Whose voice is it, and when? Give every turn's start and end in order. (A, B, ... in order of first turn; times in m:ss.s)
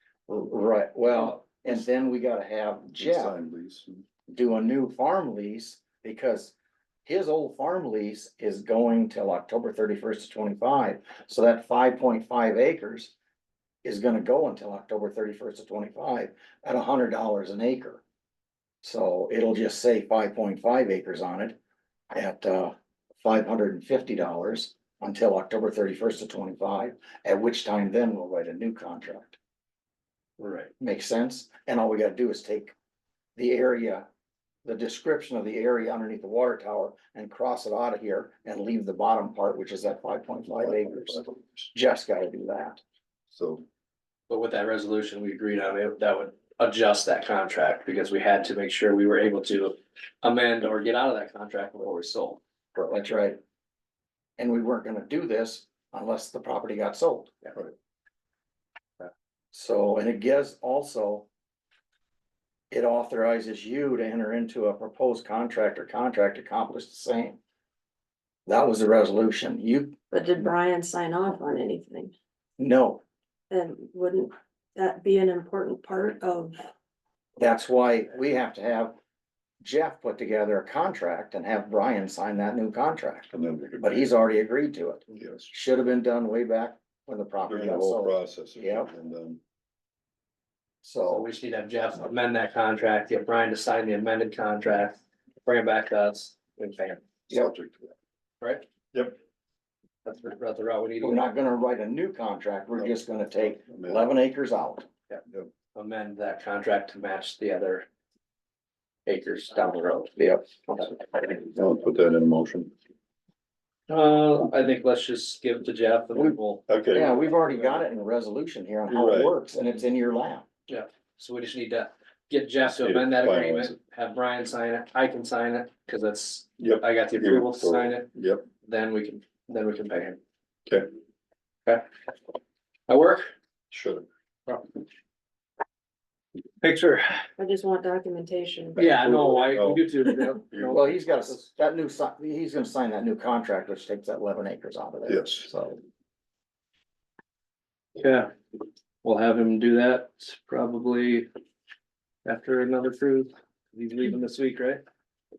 0:00.3-0:03.4 A
0:03.0-0:04.0 B
0:04.3-0:13.1 A
0:13.8-0:18.0 A
0:18.8-0:21.6 A
0:22.1-0:29.4 A
0:30.4-0:30.7 C
0:30.8-0:32.7 A
0:33.4-0:34.0 A
0:34.6-0:42.8 A
0:40.6-0:41.7 B
0:43.3-0:43.6 B
0:44.3-0:52.4 C
0:52.7-0:53.4 A
0:54.4-0:57.3 A
0:59.5-1:01.3 A
1:02.7-1:07.4 A
1:08.5-1:10.0 A
1:10.1-1:12.1 D
1:12.6-1:13.0 A
1:13.5-1:16.6 D
1:17.4-1:18.9 A
1:19.6-1:28.9 A
1:23.3-1:23.9 B
1:25.1-1:25.5 B
1:27.4-1:29.4 B
1:30.8-1:31.3 A
1:31.1-1:37.1 C
1:37.3-1:37.9 B
1:38.4-1:38.6 C
1:38.9-1:39.2 B
1:40.0-1:41.2 C
1:41.0-1:44.9 A
1:43.5-1:44.1 B
1:45.7-1:47.9 C
1:49.0-1:50.2 C
1:50.2-1:50.9 A
1:51.4-1:52.7 B
1:53.9-1:56.6 C
1:56.7-1:57.4 B
1:56.9-2:00.4 A
1:58.9-1:59.3 B
2:00.7-2:10.2 C
2:02.6-2:03.8 B
2:06.6-2:08.4 B
2:12.9-2:13.3 C
2:13.7-2:14.0 B
2:16.6-2:17.2 C
2:17.4-2:19.0 D
2:18.8-2:21.4 C
2:18.8-2:20.9 B
2:20.7-2:25.8 A
2:25.1-2:25.5 B
2:28.0-2:28.3 C
2:29.0-2:31.3 C
2:32.2-2:34.8 C